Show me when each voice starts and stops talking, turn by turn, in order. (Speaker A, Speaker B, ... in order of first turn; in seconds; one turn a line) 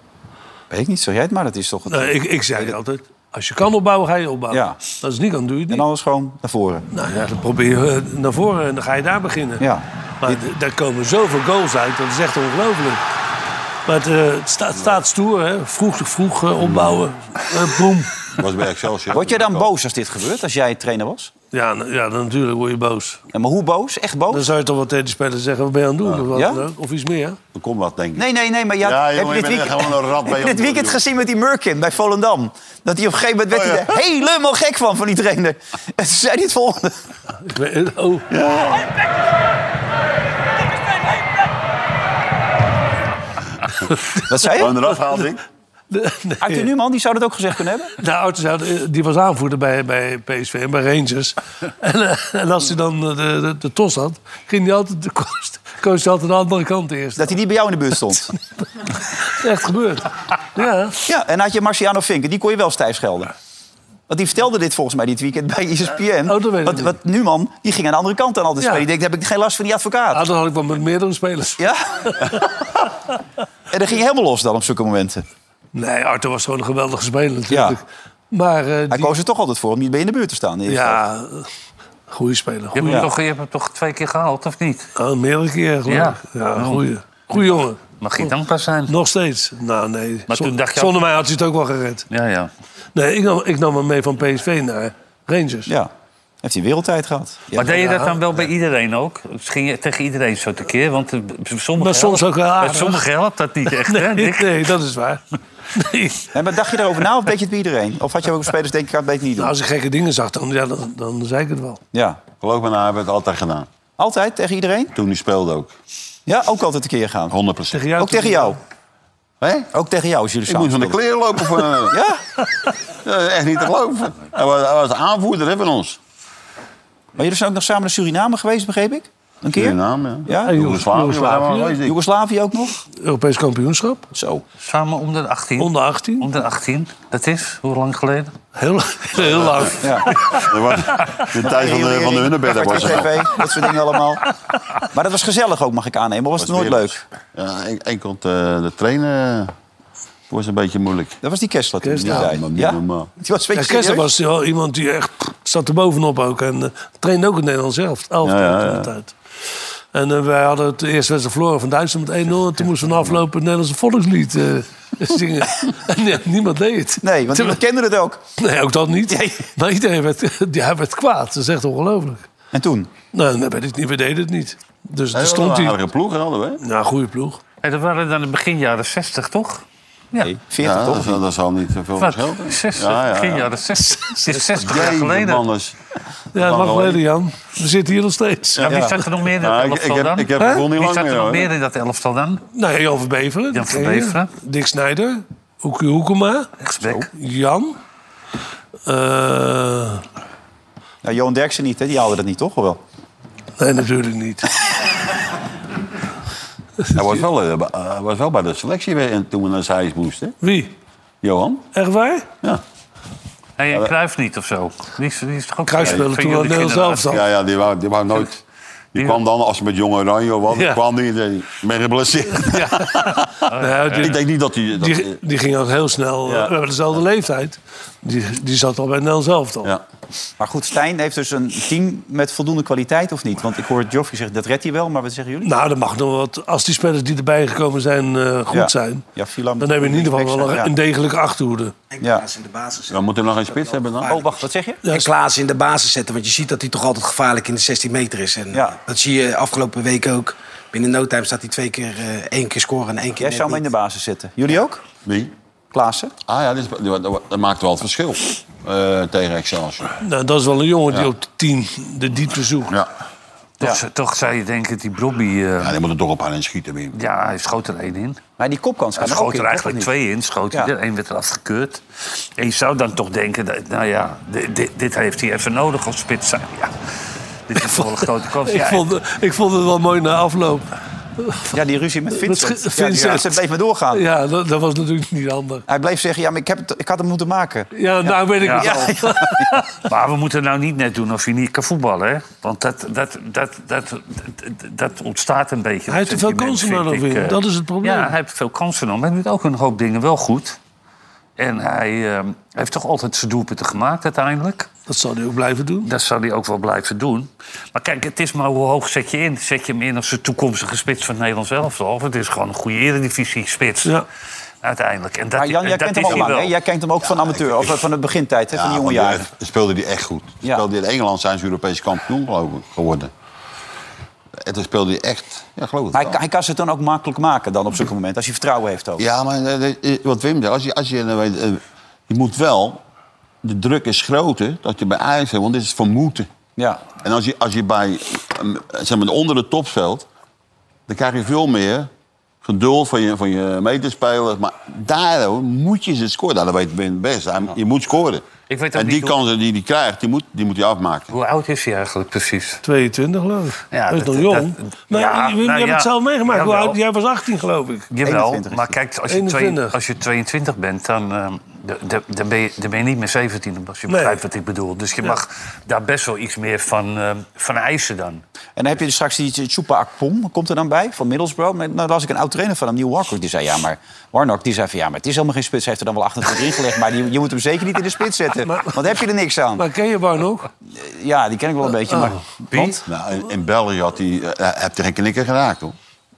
Speaker A: 0.7-2.8
Speaker B: 1.9-5.8
Speaker A: 4.5-4.8
Speaker A: 5.7-6.8
Speaker B: 6.9-9.6
Speaker A: 9.6-10.4
Speaker B: 10.2-13.0
Speaker B: 13.9-18.1
Speaker C: 16.6-17.1
Speaker C: 18.4-19.6
Speaker A: 19.1-21.3
Speaker B: 21.5-23.2
Speaker A: 23.3-24.5
Speaker B: 24.3-27.4
Speaker A: 26.3-26.6
Speaker C: 27.5-28.2
Speaker A: 28.1-37.0
Speaker C: 28.8-31.0
Speaker C: 33.6-33.9
Speaker B: 37.4-38.3
Speaker C: 38.3-38.9
Speaker A: 44.3-44.9
Speaker C: 44.5-45.4
Speaker B: 45.9-46.7
Speaker A: 46.4-47.9
Speaker B: 48.0-57.4
Speaker A: 57.2-58.3
Speaker B: 59.2-61.0
Speaker A: 61.0-63.3
Speaker A: 64.1-70.2
Speaker B: 66.2-67.0
Speaker B: 70.1-71.6
Speaker A: 71.6-72.1
Speaker A: 73.7-75.2
Speaker B: 75.7-79.1
Speaker A: 77.5-77.8
Speaker A: 78.9-81.0
Speaker B: 80.7-81.5
Speaker B: 82.1-83.0
Speaker D: 82.7-84.9
Speaker B: 85.0-88.3
Speaker D: 85.9-88.9
Speaker B: 88.9-92.0
Speaker D: 90.3-91.0
Speaker D: 92.1-92.5
Speaker B: 92.9-95.7
Speaker A: 96.4-97.8
Speaker D: 97.5-104.7
Speaker B: 97.7-98.2
Speaker B: 101.8-103.0
Speaker B: 103.7-106.3
Speaker A: 106.3-109.5
Speaker B: 109.4-111.8
Speaker A: 111.9-112.2
Speaker C: 112.4-113.7
Speaker A: 114.0-114.9
Speaker C: 114.9-115.7
Speaker A: 116.2-117.3
Speaker C: 117.3-117.8
Speaker B: 117.7-118.6
Speaker A: 118.0-118.6
Speaker C: 119.4-119.7
Speaker A: 119.7-121.0
Speaker C: 120.5-122.0
Speaker A: 121.9-122.2
Speaker C: 123.0-126.0
Speaker A: 127.2-130.6
Speaker C: 129.5-132.0
Speaker B: 130.4-131.8
Speaker A: 131.8-132.8
Speaker B: 133.0-134.0
Speaker A: 134.1-134.4
Speaker D: 134.6-138.3
Speaker B: 135.6-136.3
Speaker B: 138.5-140.4
Speaker C: 139.2-139.7
Speaker A: 139.8-140.1
Speaker C: 140.4-143.3
Speaker A: 141.4-144.2
Speaker A: 144.9-147.0
Speaker C: 146.4-149.5
Speaker C: 150.3-151.2
Speaker A: 151.2-154.1
Speaker B: 151.8-152.3
Speaker C: 152.0-153.1
Speaker B: 153.5-159.1
Speaker C: 158.2-158.9
Speaker B: 159.9-167.6
Speaker A: 167.0-168.2
Speaker B: 168.4-172.3
Speaker A: 169.1-169.4
Speaker A: 172.5-172.9
Speaker B: 173.1-175.8
Speaker C: 175.1-176.6
Speaker B: 176.6-177.4
Speaker D: 177.6-180.3
Speaker A: 180.2-181.2
Speaker C: 180.6-183.5
Speaker D: 182.0-185.4
Speaker B: 183.8-184.4
Speaker C: 184.6-185.7
Speaker B: 186.3-188.7
Speaker C: 186.3-187.0
Speaker D: 188.6-192.4
Speaker A: 188.7-188.9
Speaker C: 189.3-191.5
Speaker B: 192.5-197.8
Speaker D: 193.5-194.3
Speaker D: 196.7-197.0
Speaker A: 196.8-197.1
Speaker B: 198.9-200.0
Speaker A: 201.0-202.8
Speaker B: 203.6-204.5
Speaker B: 206.8-207.2
Speaker C: 206.9-210.3
Speaker B: 210.4-210.7
Speaker C: 211.2-211.6
Speaker B: 211.7-212.3
Speaker D: 213.6-217.2
Speaker B: 215.7-217.2
Speaker C: 217.1-218.4
Speaker C: 218.9-223.4
Speaker B: 220.5-220.8
Speaker B: 222.3-224.2
Speaker D: 223.5-224.1
Speaker C: 224.0-225.1
Speaker B: 224.8-229.7
Speaker C: 226.2-226.5
Speaker A: 230.4-235.5
Speaker B: 235.4-239.0
Speaker A: 238.5-240.7
Speaker B: 239.6-241.7
Speaker E: 241.9-253.7
Speaker C: 242.9-244.2
Speaker A: 244.1-244.8
Speaker B: 244.8-245.1
Speaker A: 253.2-254.8
Speaker C: 255.0-255.3
Speaker A: 255.7-256.1
Speaker C: 256.3-259.9
Speaker B: 260.0-262.7
Speaker D: 263.6-265.7
Speaker C: 265.6-266.9
Speaker D: 266.9-268.2
Speaker A: 268.4-269.9
Speaker D: 268.9-276.8
Speaker D: 277.5-278.9
Speaker B: 277.6-280.6
Speaker B: 281.2-281.4
Speaker A: 281.5-284.1
Speaker B: 282.2-283.4
Speaker B: 283.9-285.6
Speaker A: 285.7-289.6
Speaker B: 287.7-289.8
Speaker D: 288.4-288.8
Speaker D: 289.8-300.6
Speaker B: 295.9-298.1
Speaker D: 301.4-304.7
Speaker B: 304.9-305.9
Speaker D: 305.8-314.0
Speaker D: 314.6-316.5
Speaker A: 315.3-319.3
Speaker C: 317.1-317.7
Speaker C: 318.5-323.1
Speaker C: 324.4-326.2
Speaker A: 325.9-329.1
Speaker C: 329.0-332.8
Speaker C: 333.4-336.3
Speaker A: 336.6-336.8
Speaker C: 336.9-340.1
Speaker C: 340.9-341.9
Speaker C: 342.4-351.1
Speaker D: 348.5-349.2
Speaker D: 351.1-352.6
Speaker B: 352.6-357.9
Speaker D: 353.7-356.8
Speaker D: 357.9-368.2
Speaker A: 358.0-358.8
Speaker B: 359.1-359.7
Speaker B: 363.9-364.2
Speaker A: 368.6-379.6
Speaker B: 378.4-379.0
Speaker B: 379.6-380.5
Speaker A: 380.7-382.8
Speaker B: 381.9-382.2
Speaker D: 382.5-382.8
Speaker C: 382.9-385.7